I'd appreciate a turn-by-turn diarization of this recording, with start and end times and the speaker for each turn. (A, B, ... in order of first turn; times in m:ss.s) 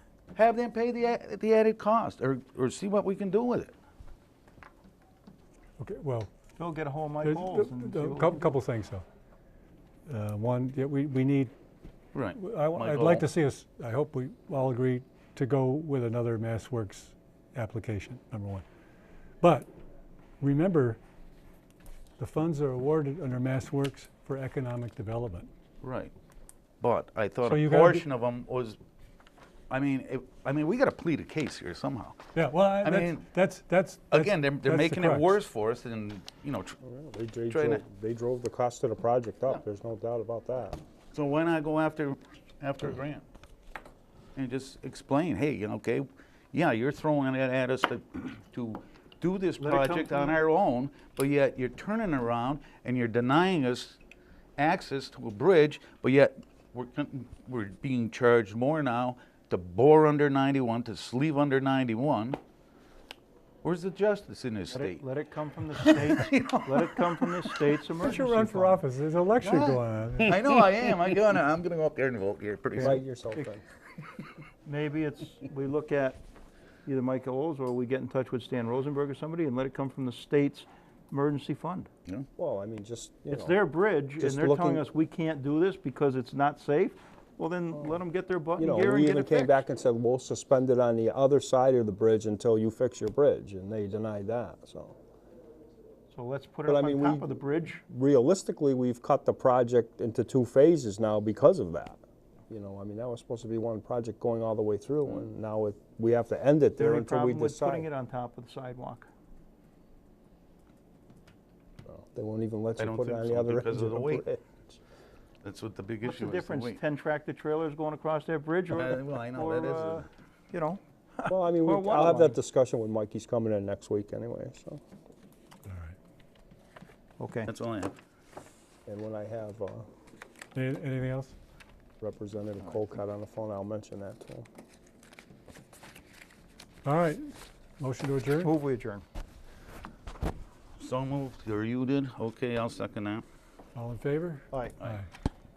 0:00.3-0:03.8 A
0:05.8-0:06.3 B
0:06.6-0:08.5 C
0:07.2-0:09.0 B
0:10.1-0:11.5 B
0:12.1-0:13.3 A
0:12.4-0:18.6 B
0:19.4-0:19.7 B
0:20.4-0:21.0 B
0:22.2-0:25.5 B
0:25.8-0:26.1 A
0:26.8-0:28.8 A
0:27.4-0:28.1 B
0:29.7-0:32.3 A
0:32.4-0:35.4 B
0:32.8-0:33.2 A
0:34.1-0:36.8 A
0:36.8-0:40.8 D
0:37.5-0:37.8 A
0:41.1-0:43.2 A
0:44.4-0:54.0 A
0:49.6-0:50.4 C
0:54.6-1:02.4 A
1:03.6-1:05.0 A
1:04.7-1:08.8 C
1:05.8-1:07.6 A
1:08.0-1:10.6 B
1:09.4-1:13.0 A
1:12.8-1:13.5 C
1:12.8-1:13.6 D
1:14.6-1:16.2 C
1:16.8-1:21.9 C
1:22.4-1:23.6 D
1:23.3-1:29.6 C
1:24.2-1:24.8 D
1:28.6-1:35.0 D
1:36.1-1:37.8 C
1:36.7-1:47.9 D
1:46.8-1:49.1 C
1:51.9-1:54.8 D
1:52.8-1:54.3 A
1:55.4-1:56.8 A
1:56.0-2:02.4 C
1:58.7-2:00.0 A
2:01.3-2:04.8 D
2:05.7-2:06.0 B
2:07.2-2:07.5 C
2:07.5-2:07.9 A
2:08.9-2:09.9 D
2:10.6-2:11.4 B
2:12.0-2:14.5 D
2:16.8-2:17.2 B
2:17.8-2:18.5 B
2:18.4-2:19.0 C
2:20.8-2:23.2 A
2:23.8-2:25.1 B